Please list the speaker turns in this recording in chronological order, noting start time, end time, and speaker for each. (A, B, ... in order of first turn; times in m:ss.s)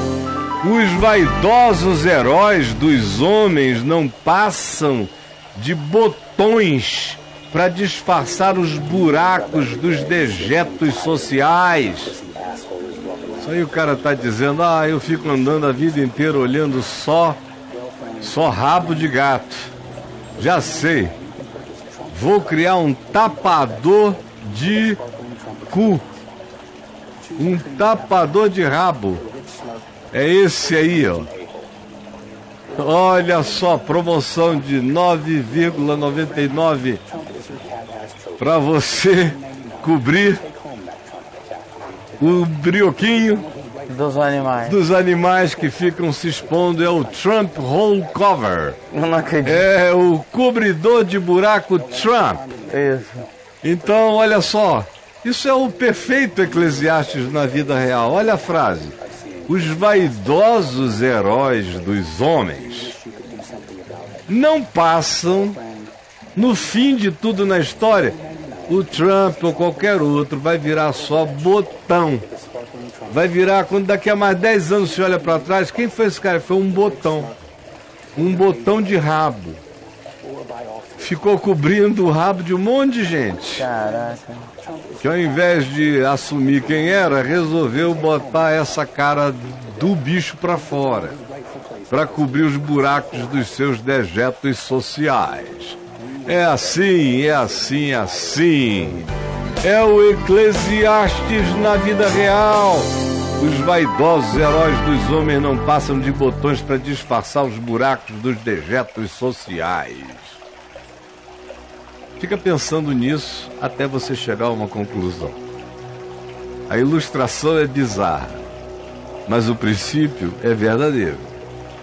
0:00.6-0:12.2 A
0:13.4-0:17.4 A
0:18.2-0:19.7 A
0:20.4-0:21.1 A
0:22.1-0:25.0 A
0:25.6-0:26.0 A
0:27.4-0:29.3 A
0:30.1-0:31.3 A
0:32.7-0:37.0 A
0:38.4-0:40.5 A
0:42.2-0:43.5 A
0:43.9-0:44.8 B
0:44.6-0:48.8 A
0:48.9-0:49.7 B
0:49.4-0:52.5 A
0:52.7-0:53.3 B
0:53.6-1:03.0 A
1:04.3-1:05.6 A
1:06.4-1:12.3 A
1:13.1-1:17.3 A
1:18.2-1:19.6 A
1:21.0-1:23.7 A
1:23.6-1:24.5 B
1:25.0-1:31.2 A
1:31.9-1:39.1 A
1:39.6-1:50.4 A
1:52.2-1:55.4 A
1:56.7-1:58.4 A
1:59.2-2:01.3 A